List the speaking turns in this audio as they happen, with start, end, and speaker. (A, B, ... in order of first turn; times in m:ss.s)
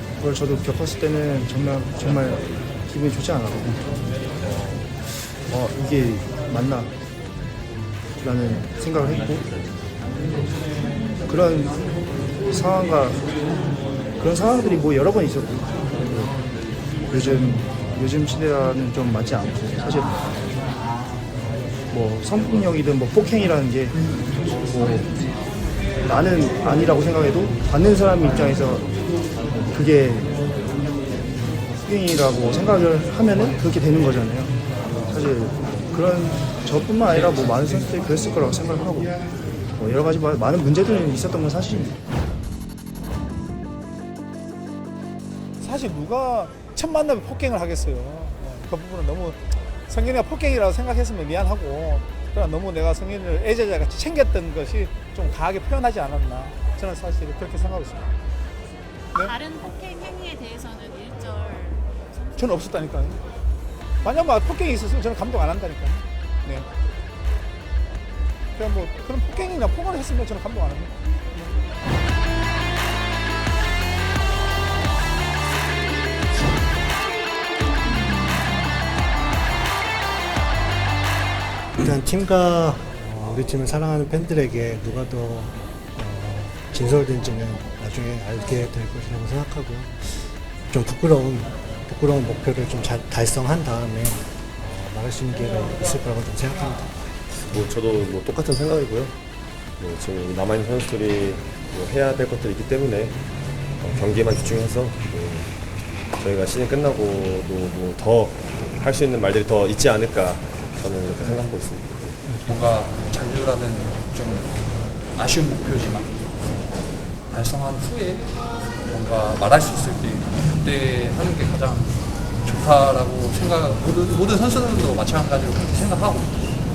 0:00.2-0:03.9 A
0:04.4-0:06.9 A
0:08.2-0:09.5 A
0:11.2-0:11.8 A
0:12.5-0:13.3 A
0:14.2-0:16.3 A
0:17.0-0:20.3 A
0:21.9-0:24.0 A
0:24.5-0:25.1 A
0:26.0-0:28.9 A
0:29.5-0:30.4 A
0:31.8-0:34.5 A
0:35.0-0:39.2 A
0:39.7-0:42.0 A
0:45.6-0:58.1 B
0:59.2-1:02.8 C
1:02.4-1:03.2 B
1:04.0-1:06.7 B
1:08.6-1:10.9 B
1:21.8-1:36.9 D
1:37.3-1:39.1 E
1:39.8-1:43.2 E
1:43.8-1:45.6 E
1:46.1-1:52.2 E
1:52.4-1:56.3 F
1:57.3-2:06.3 F